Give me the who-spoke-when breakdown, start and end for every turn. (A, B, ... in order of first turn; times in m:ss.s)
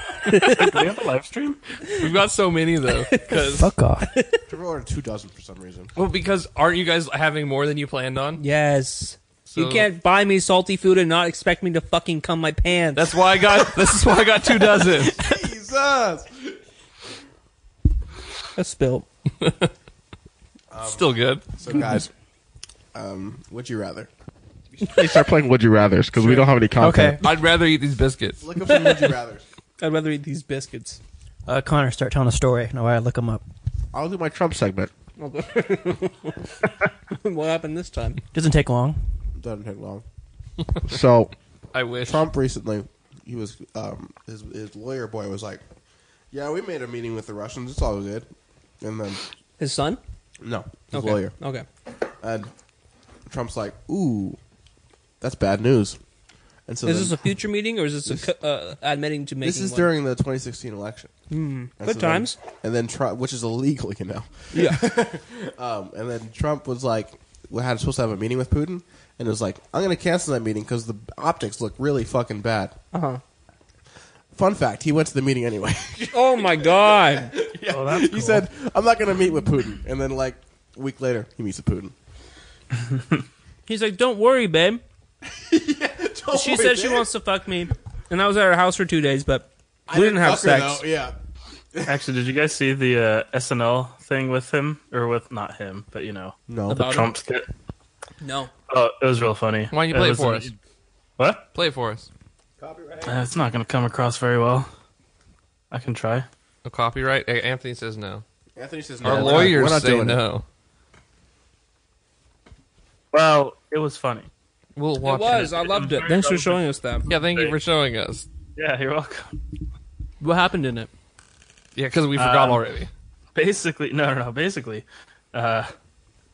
0:00.2-0:00.8 A
0:00.4-0:01.6 B
0:01.9-0:03.7 C
0:03.1-0:03.5 A
0:03.5-0:04.1 D
0:04.0-0:04.4 A
0:04.5-0:05.9 E
0:06.0-0:08.4 C
0:08.4-0:13.1 A
0:09.5-0:09.9 C
0:13.0-0:15.2 C
0:13.6-0:16.6 E
0:18.6-0:19.1 A
0:19.4-0:19.7 C
0:20.7-0:22.1 E
0:20.8-0:21.4 C
0:22.9-0:24.1 E
0:24.7-0:27.3 E
0:26.8-0:27.2 D
0:27.1-0:28.4 C
0:28.4-0:29.4 E
0:28.6-0:29.2 A
0:29.8-0:31.0 A
0:31.5-0:33.4 D
0:33.9-0:34.9 E
0:35.2-0:38.2 A
0:38.3-0:39.0 D
0:39.4-0:40.0 E
0:40.8-0:41.3 E
0:41.7-0:42.3 C
0:42.0-0:45.6 E
0:46.3-0:48.3 E
0:48.8-0:49.2 E
0:49.6-0:50.0 A
0:50.4-0:51.3 E
0:50.9-0:51.6 A
0:52.2-0:52.5 E
0:53.3-0:54.4 E
0:55.2-0:56.0 E
0:56.7-0:57.3 E
0:56.8-0:59.9 A
0:59.4-1:01.1 E
1:01.3-1:02.4 A
1:01.8-1:12.8 E
1:04.5-1:04.9 A
1:12.9-1:13.2 A
1:14.3-1:21.9 E
1:16.1-1:17.3 A
1:17.7-1:18.4 B
1:22.8-1:23.1 B
1:23.7-1:24.8 A
1:25.3-1:27.1 E
1:26.3-1:30.8 A
1:29.9-1:31.2 E
1:31.7-1:32.0 E
1:31.9-1:37.4 B
1:36.5-1:37.0 E
1:36.7-1:37.2 A
1:38.2-1:38.5 A
1:38.7-1:40.5 B
1:39.7-1:40.5 C
1:41.2-1:41.5 B
1:41.6-1:42.1 C
1:42.6-1:43.3 E
1:43.0-1:44.7 B
1:45.7-1:46.3 B
1:46.6-1:48.2 C
1:48.6-1:50.2 E
1:49.0-1:50.4 C
1:49.0-1:49.7 A
1:53.1-1:54.3 B
1:54.8-1:55.6 C
1:55.0-1:57.1 A
1:55.6-1:57.6 B
1:57.1-1:58.3 C
1:58.6-1:59.4 B
2:00.2-2:00.9 A
2:01.8-2:02.9 C
2:02.2-2:02.6 B
2:03.4-2:05.7 B